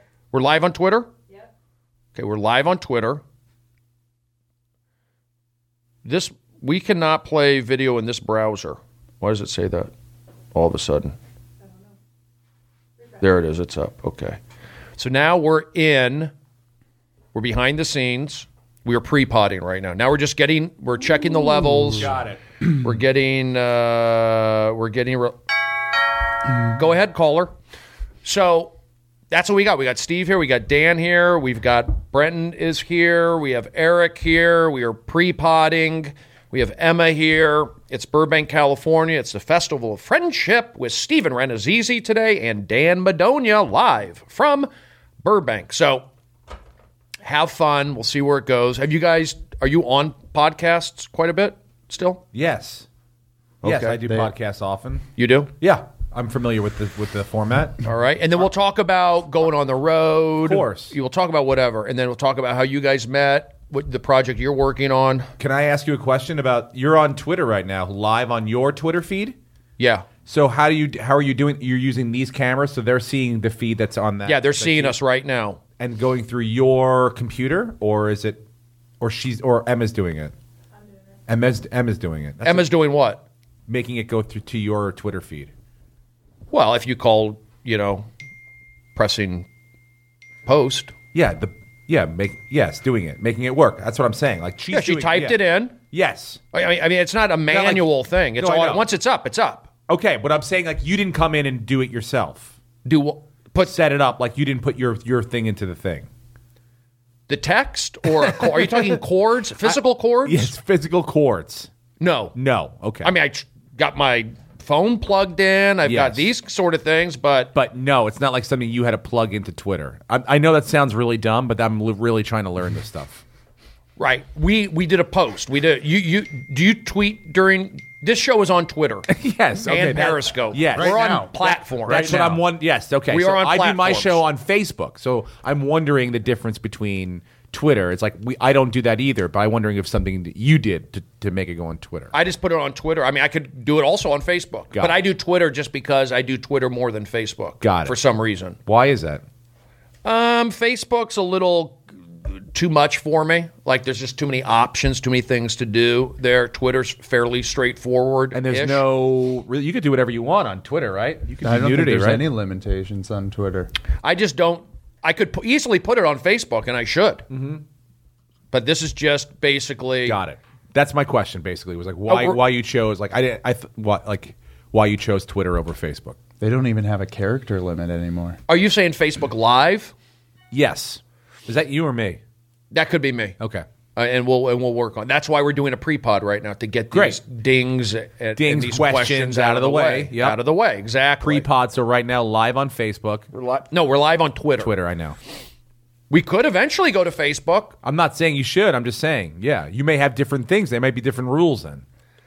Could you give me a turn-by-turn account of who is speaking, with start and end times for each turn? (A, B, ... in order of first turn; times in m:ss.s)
0:00.3-0:01.1 A
0:02.1-0:03.2 A
0:06.0-0:09.9 A
0:10.5-0:11.2 A
0:13.1-0:14.4 A
0:15.0-0:16.3 A
0:17.3-0:22.1 A
0:22.0-0:22.4 B
0:22.8-0:25.4 A
0:26.6-0:27.5 A
0:28.2-0:28.8 A
0:29.3-0:44.7 A
0:45.2-0:46.1 A
0:47.2-0:52.2 A
0:52.3-0:52.9 B
0:53.6-0:54.0 A
0:53.6-0:55.1 B
0:55.2-0:55.5 A
0:55.6-0:57.8 B
0:57.8-1:05.3 A
1:00.4-1:00.9 B
1:05.4-1:09.4 B
1:09.8-1:10.1 A
1:10.2-1:15.0 B
1:14.2-1:15.6 A
1:15.8-1:18.4 B
1:19.0-1:20.3 B
1:21.3-1:22.8 B
1:22.4-1:23.2 A
1:23.7-1:25.5 B
1:26.5-1:28.1 A
1:29.0-1:29.5 A
1:30.4-1:30.9 A
1:31.1-1:36.4 B
1:34.7-1:35.8 A
1:36.5-1:39.7 A
1:37.5-1:38.8 B
1:39.9-1:42.5 B
1:42.8-1:43.7 A
1:43.6-1:46.1 B
1:47.3-1:50.5 A
1:48.3-1:49.0 B
1:49.6-1:51.7 B
1:52.0-1:52.3 A
1:52.3-1:53.1 B
1:53.0-1:57.5 A
1:55.8-1:56.3 B
1:57.5-2:03.2 B
2:04.0-2:09.1 A
2:09.1-2:22.1 B
2:09.6-2:12.4 A
2:10.7-2:12.4 C
2:13.1-2:14.2 A
2:22.1-2:28.6 A
2:27.6-2:28.0 B
2:28.6-2:29.2 B
2:30.0-2:38.8 A
2:38.3-2:42.2 B
2:41.4-2:43.7 C
2:44.0-2:47.2 A
2:47.3-2:47.6 B
2:48.5-2:50.2 A
2:50.0-2:56.2 B
2:52.1-2:52.4 A
2:56.4-2:58.4 C
2:58.5-2:59.9 A
3:00.5-3:02.2 B
3:02.7-3:03.4 A
3:03.4-3:03.6 B
3:04.0-3:11.4 A
3:06.9-3:07.2 B
3:08.4-3:10.4 B
3:11.2-3:13.3 B
3:13.3-3:14.7 A
3:14.6-3:15.2 B
3:16.1-3:17.8 A
3:17.8-3:21.8 B